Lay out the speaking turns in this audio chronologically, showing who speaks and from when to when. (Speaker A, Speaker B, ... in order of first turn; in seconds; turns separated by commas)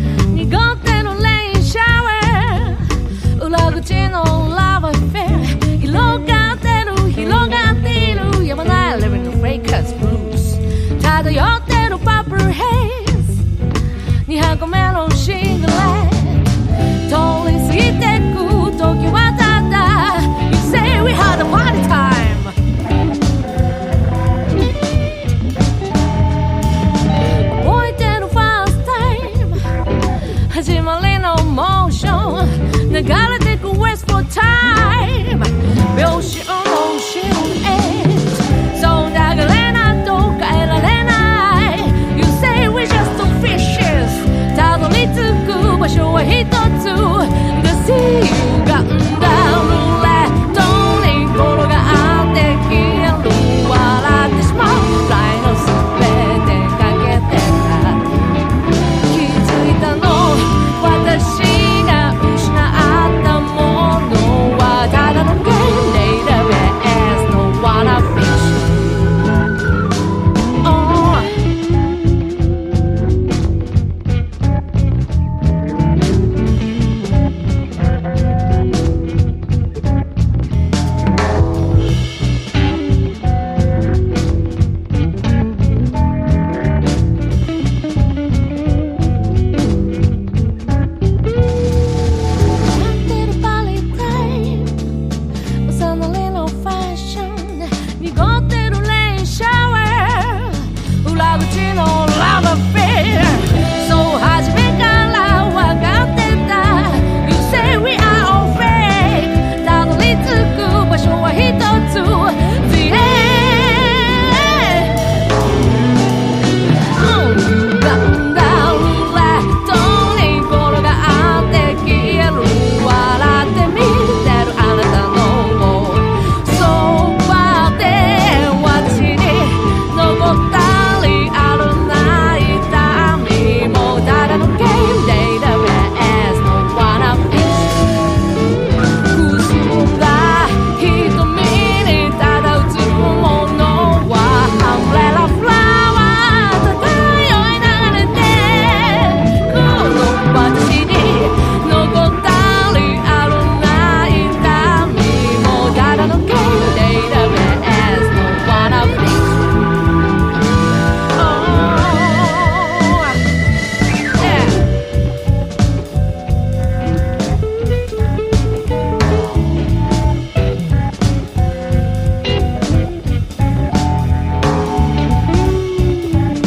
Speaker A: 0.2-13.4, Speaker A: 14.2-16.5, Speaker A: 17.0-22.6, Speaker A: 27.5-29.7, Speaker A: 30.5-58.1, Speaker A: 59.0-69.0, Speaker A: 70.6-71.4, Speaker A: 92.7-94.8, Speaker A: 95.6-115.0, Speaker A: 116.9-137.8, Speaker A: 139.0-159.5, Speaker A: 161.1-163.2, Speaker A: 164.1-164.6